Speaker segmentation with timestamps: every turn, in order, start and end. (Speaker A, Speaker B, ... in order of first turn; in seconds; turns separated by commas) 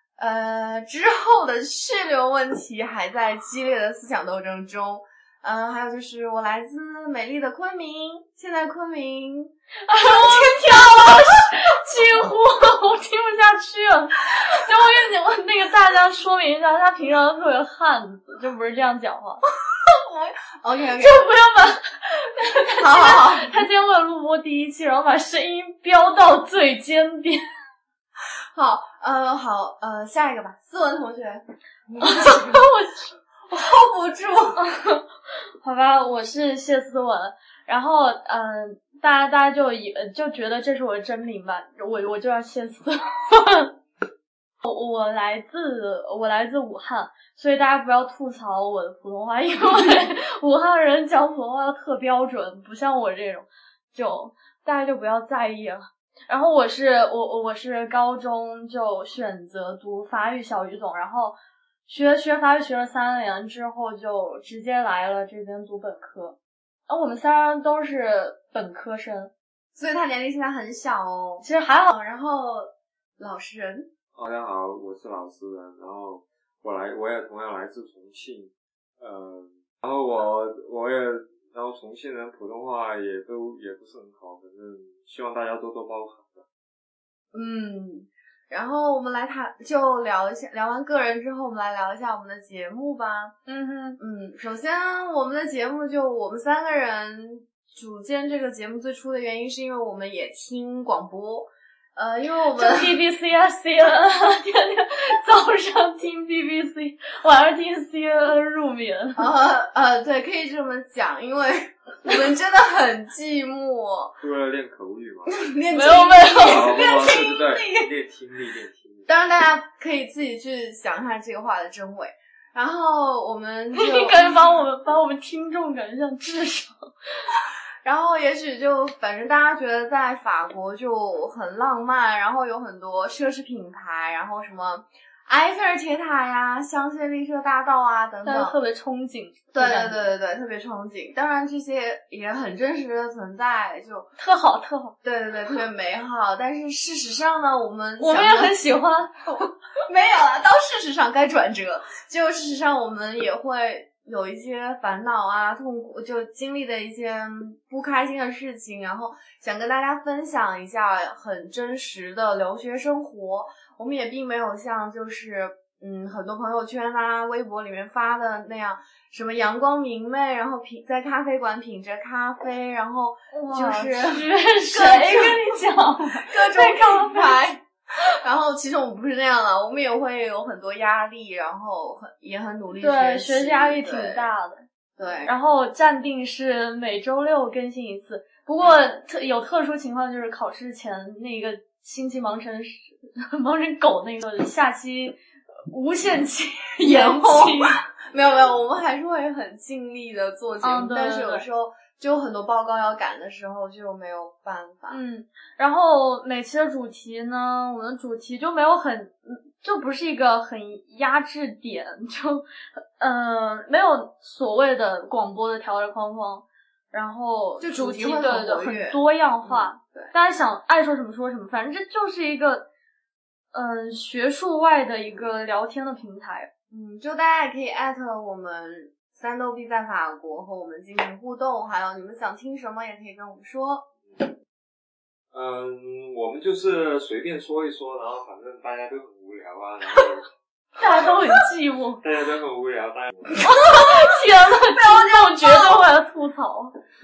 Speaker A: 0.2-11.3, Speaker B: 9.9-19.4, Speaker A: 19.8-21.2, Speaker B: 21.0-27.4, Speaker A: 22.8-23.5, Speaker A: 28.5-32.6, Speaker B: 32.0-33.2, Speaker A: 33.5-34.6, Speaker B: 34.6-35.0, Speaker B: 35.6-43.7, Speaker B: 44.6-61.4, Speaker B: 61.9-66.3, Speaker B: 66.9-69.3, Speaker A: 69.7-73.9, Speaker B: 71.4-71.9, Speaker C: 74.1-86.4, Speaker A: 87.3-93.3, Speaker B: 93.5-94.0, Speaker A: 94.0-103.0, Speaker B: 102.5-109.3, Speaker A: 109.2-114.1, Speaker C: 114.2-115.5, Speaker A: 115.3-117.9, Speaker B: 115.7-116.9, Speaker C: 116.4-119.1, Speaker A: 119.1-124.3, Speaker B: 123.7-126.7, Speaker A: 127.8-138.5, Speaker B: 138.2-140.0, Speaker A: 139.5-144.1, Speaker B: 144.2-144.9, Speaker A: 145.0-148.6, Speaker B: 148.0-149.2, Speaker A: 149.8-175.4, Speaker B: 173.3-177.4, Speaker A: 176.1-184.3, Speaker B: 182.8-184.6, Speaker A: 185.0-185.3, Speaker B: 185.2-195.2, Speaker B: 195.7-197.8, Speaker A: 196.8-205.0, Speaker B: 200.6-201.4, Speaker B: 204.9-212.4, Speaker B: 213.0-222.7, Speaker A: 217.6-220.1, Speaker B: 223.5-226.5, Speaker A: 226.7-233.9, Speaker C: 235.3-240.3, Speaker B: 240.8-242.0, Speaker C: 242.0-243.5, Speaker B: 243.3-246.7, Speaker A: 244.7-245.8